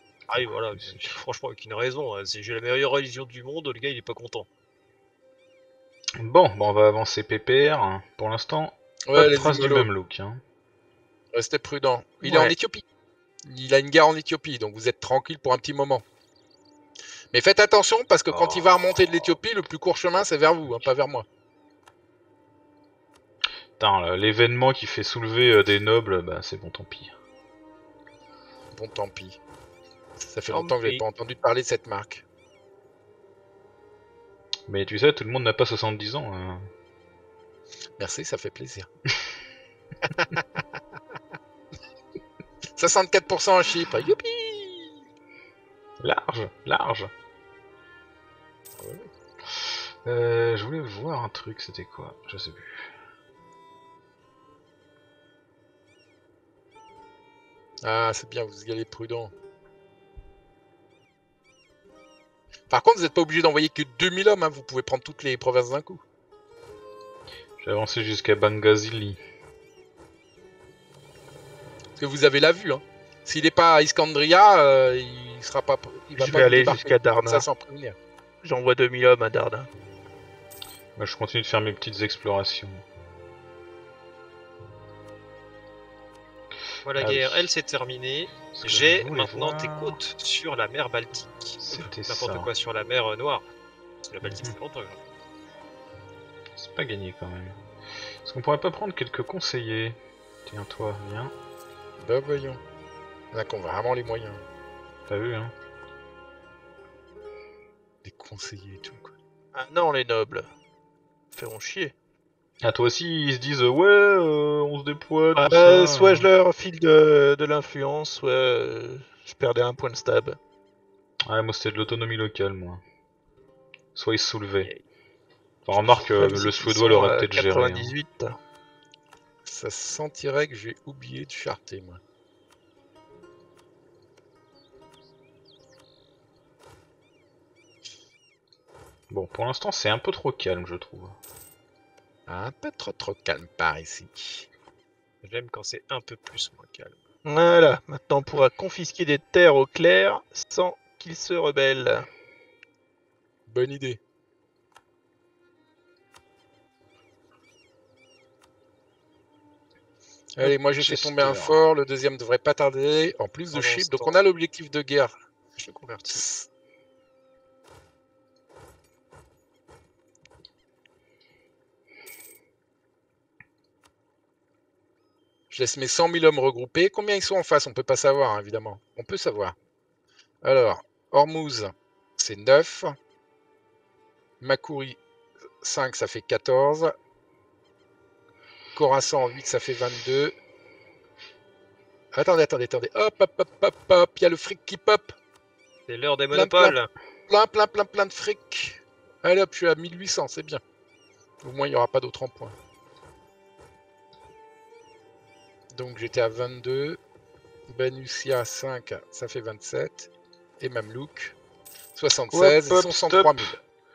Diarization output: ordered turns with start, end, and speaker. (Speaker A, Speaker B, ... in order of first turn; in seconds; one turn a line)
Speaker A: 0.3-4.5
Speaker B: 0.4-1.2
Speaker B: 6.2-10.4
Speaker C: 9.1-9.9
Speaker C: 11.3-12.8
Speaker C: 13.4-16.0
Speaker C: 17.3-21.2
Speaker B: 18.3-19.4
Speaker B: 23.8-27.1
Speaker C: 28.7-29.4
Speaker C: 30.2-32.2
Speaker A: 30.5-31.0
Speaker B: 34.7-36.7
Speaker C: 38.0-38.9
Speaker C: 42.8-45.0
Speaker B: 46.0-47.1
Speaker C: 48.8-49.1
Speaker B: 49.5-52.9
Speaker C: 57.8-59.3
Speaker C: 62.7-66.0
Speaker B: 67.6-69.2
Speaker C: 72.0-78.0
Speaker D: 76.2-77.5
Speaker D: 78.4-79.7
Speaker B: 81.0-82.8
Speaker A: 86.8-93.5
Speaker B: 87.0-87.5
Speaker B: 88.5-90.0
Speaker B: 91.6-92.5
Speaker A: 94.0-95.0
Speaker B: 94.2-94.5
Speaker B: 96.5-97.6
Speaker B: 98.2-101.3
Speaker C: 102.0-102.6
Speaker C: 103.3-104.4
Speaker B: 105.1-105.5
Speaker C: 108.0-109.1
Speaker D: 109.5-110.5
Speaker D: 111.3-111.9
Speaker B: 112.6-116.3
Speaker D: 115.3-120.4
Speaker B: 121.2-122.8
Speaker B: 123.9-124.7
Speaker B: 125.7-127.9
Speaker D: 126.0-128.4
Speaker C: 129.4-132.0
Speaker B: 139.1-141.2
Speaker C: 142.3-144.5
Speaker A: 145.2-147.0
Speaker D: 147.2-152.1
Speaker C: 153.5-154.0
Speaker C: 160.3-165.2
Speaker B: 160.8-161.6
Speaker A: 163.5-164.2
Speaker A: 165.6-166.2
Speaker C: 166.1-166.4
Speaker C: 175.5-179.5
Speaker C: 180.4-182.9
Speaker C: 184.4-185.0
Speaker C: 185.6-186.9
Speaker C: 188.7-190.3
Speaker C: 192.1-195.2
Speaker A: 195.9-196.9
Speaker C: 196.3-196.7
Speaker C: 197.3-200.6
Speaker C: 201.4-202.5
Speaker C: 205.7-207.0
Speaker C: 207.7-210.1
Speaker C: 210.6-211.3
Speaker C: 211.9-213.6
Speaker B: 212.3-213.5